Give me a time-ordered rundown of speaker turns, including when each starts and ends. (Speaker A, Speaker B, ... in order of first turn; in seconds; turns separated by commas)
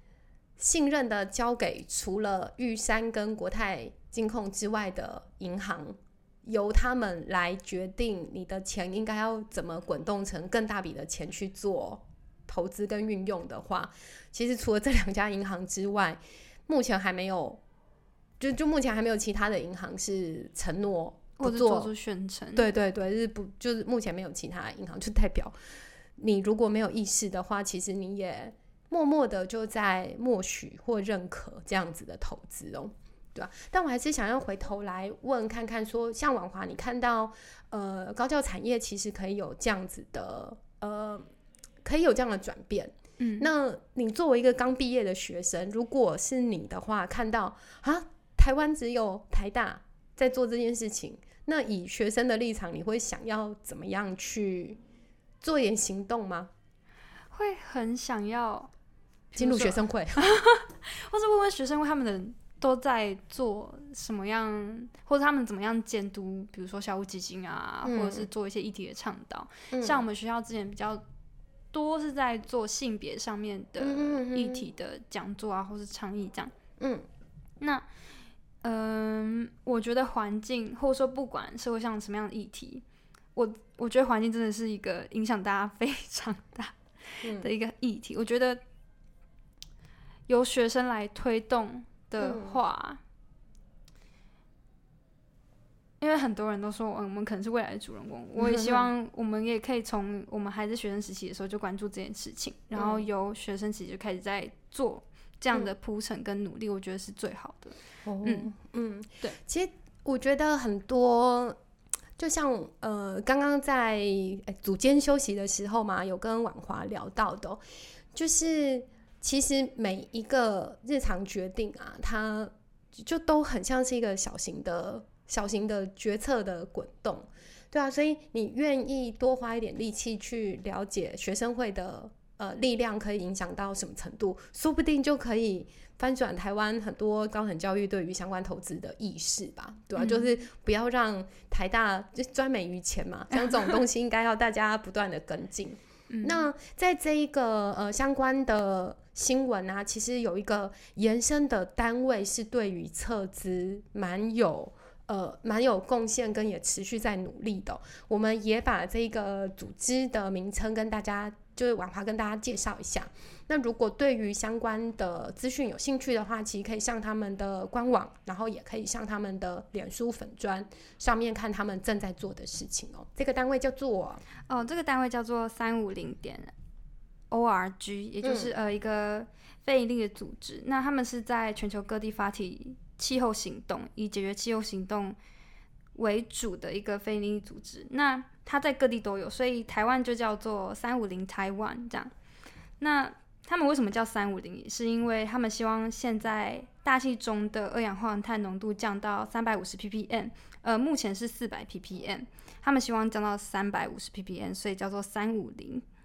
Speaker A: 0.6-17.6, Speaker A: 18.4-21.9, Speaker B: 21.4-22.6, Speaker A: 22.6-25.5, Speaker A: 26.2-41.2, Speaker A: 41.8-54.8, Speaker B: 43.2-43.5, Speaker A: 55.4-56.5, Speaker B: 57.3-58.7, Speaker B: 59.3-71.0, Speaker A: 59.4-60.3, Speaker A: 67.8-68.3, Speaker A: 69.7-70.0, Speaker B: 71.7-76.5, Speaker A: 73.8-74.7, Speaker A: 76.8-77.1, Speaker B: 77.6-77.9, Speaker B: 78.6-82.8, Speaker B: 83.3-88.6, Speaker A: 87.2-87.5, Speaker B: 90.3-93.0, Speaker A: 92.2-92.6, Speaker B: 96.0-108.5, Speaker A: 98.4-98.9, Speaker A: 102.8-103.1, Speaker A: 108.0-111.6, Speaker A: 112.2-117.6, Speaker A: 118.1-174.2, Speaker B: 140.0-140.3, Speaker B: 146.1-146.5, Speaker B: 174.5-176.5, Speaker B: 177.3-185.2, Speaker A: 178.2-178.5, Speaker B: 185.9-192.1, Speaker B: 192.8-205.8